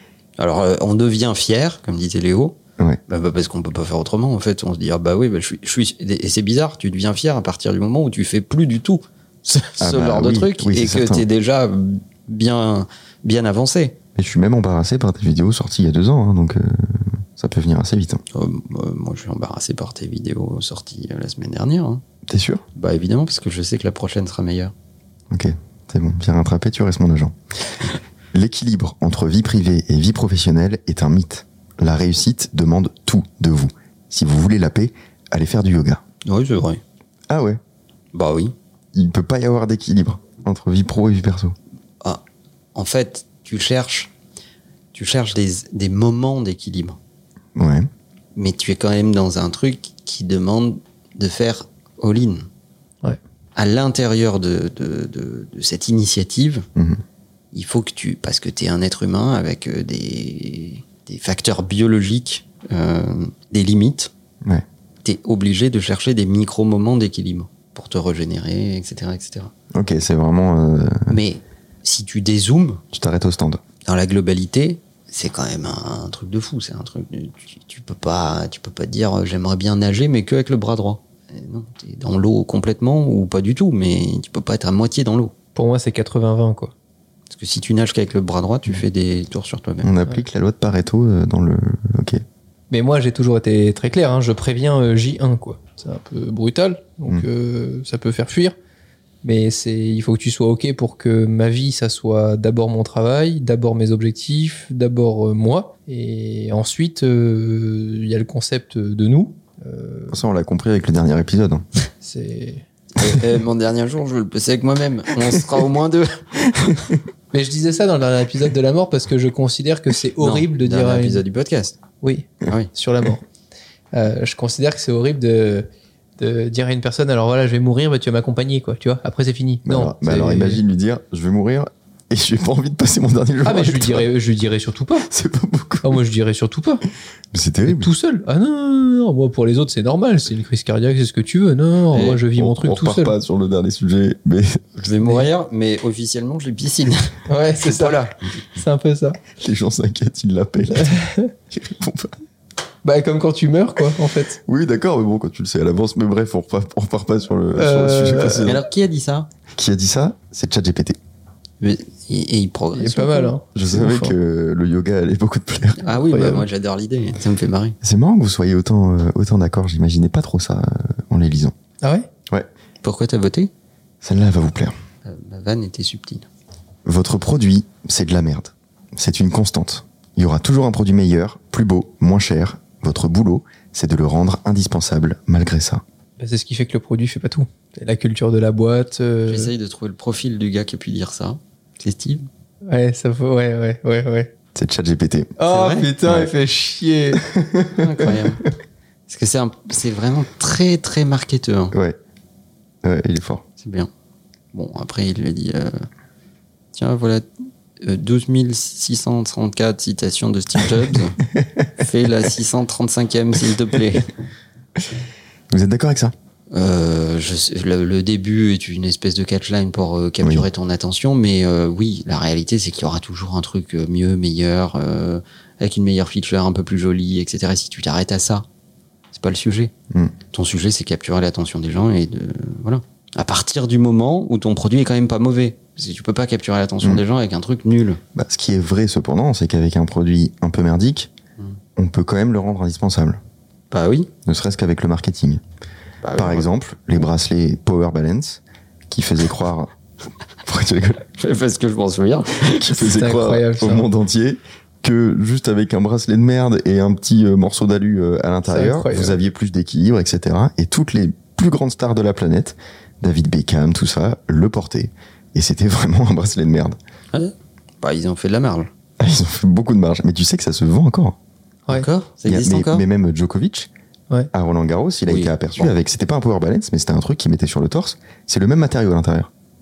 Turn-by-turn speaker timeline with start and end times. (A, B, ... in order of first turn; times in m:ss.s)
0:00.4-0:02.6 A
0:03.1-0:14.0 A
0:09.8-0:11.2 B
0:14.2-0:18.2 B
0:18.3-0:22.0 A
0:22.3-0:22.6 B
0:22.8-0:24.7 A
0:25.3-0:27.4 B
0:28.3-0:36.0 B
0:36.2-0:36.8 A
0:37.3-0:37.6 B
0:38.1-0:38.5 A
0:38.9-0:41.5 B
0:42.7-0:44.1 A
0:44.9-0:47.0 A
0:47.5-0:47.9 B
0:48.4-0:52.4 A
0:53.6-0:56.6 A
0:56.8-0:57.0 B
0:57.5-1:04.1 A
1:05.0-1:09.5 A
1:09.7-1:11.2 B
1:11.1-1:12.8 A
1:12.9-1:13.6 B
1:13.8-1:25.3 A
1:25.5-1:26.7 C
1:27.3-1:29.9 A
1:29.8-1:32.2 B
1:32.7-1:38.5 C
1:39.2-1:50.2 C
1:50.1-1:51.6 B
1:52.0-1:52.6 C
1:53.0-1:56.7 A
1:57.3-2:01.2 C
2:00.2-2:01.7 A
2:02.0-2:03.2 C
2:03.9-2:05.7 C
2:06.2-2:10.6 C
2:09.6-2:14.1 B
2:13.4-2:15.1 C
2:15.0-2:16.0 B
2:15.8-2:16.8 C
2:17.3-2:17.9 B
2:17.6-2:23.2 C
2:21.9-2:22.2 A
2:22.3-2:24.6 B
2:24.8-2:28.1 A
2:27.3-2:29.2 C
2:29.4-2:32.1 B
2:30.7-2:31.3 C
2:32.8-2:34.4 C
2:34.4-2:38.6 B
2:37.5-2:38.5 C
2:38.4-2:39.3 A
2:39.5-2:41.0 B
2:41.6-2:43.3 A
2:42.7-2:44.1 C
2:43.5-2:45.8 B
2:45.8-2:47.8 A
2:45.9-2:46.4 C
2:47.8-2:51.5 B
2:51.8-2:52.1 C
2:52.8-2:53.5 A
2:54.0-2:54.8 B
2:55.0-2:56.2 A
2:56.8-3:05.8 B
3:06.2-3:09.5 C
3:09.3-3:12.3 A
3:12.7-3:14.3 C
3:14.5-3:15.3 B
3:15.4-3:17.3 C
3:15.5-3:15.9 A
3:16.0-3:16.3 B
3:17.2-3:17.7 B
3:17.7-3:18.4 A
3:19.1-3:21.7 A
3:22.8-3:23.4 B
3:23.6-3:23.9 A
3:24.5-3:25.9 A
3:26.7-3:27.2 A
3:27.8-3:31.2 A
3:31.3-3:31.6 B
3:31.8-3:34.1 A
3:35.5-3:36.1 B
3:36.5-3:48.4 A
3:49.1-3:49.7 A
3:50.3-3:58.0 A
3:58.1-4:01.1 B
4:01.8-4:03.2 B
4:03.7-4:04.1 A
4:04.2-4:05.4 B
4:06.0-4:06.5 A
4:06.2-4:09.7 B
4:10.4-4:11.0 B
4:11.2-4:12.7 A
4:12.5-4:26.8 B
4:12.7-4:13.9 C
4:18.5-4:19.2 C
4:27.1-4:28.7 A
4:29.0-4:31.2 B
4:31.7-4:32.8 A
4:32.2-4:33.7 B
4:34.3-4:39.3 B
4:35.1-4:35.7 A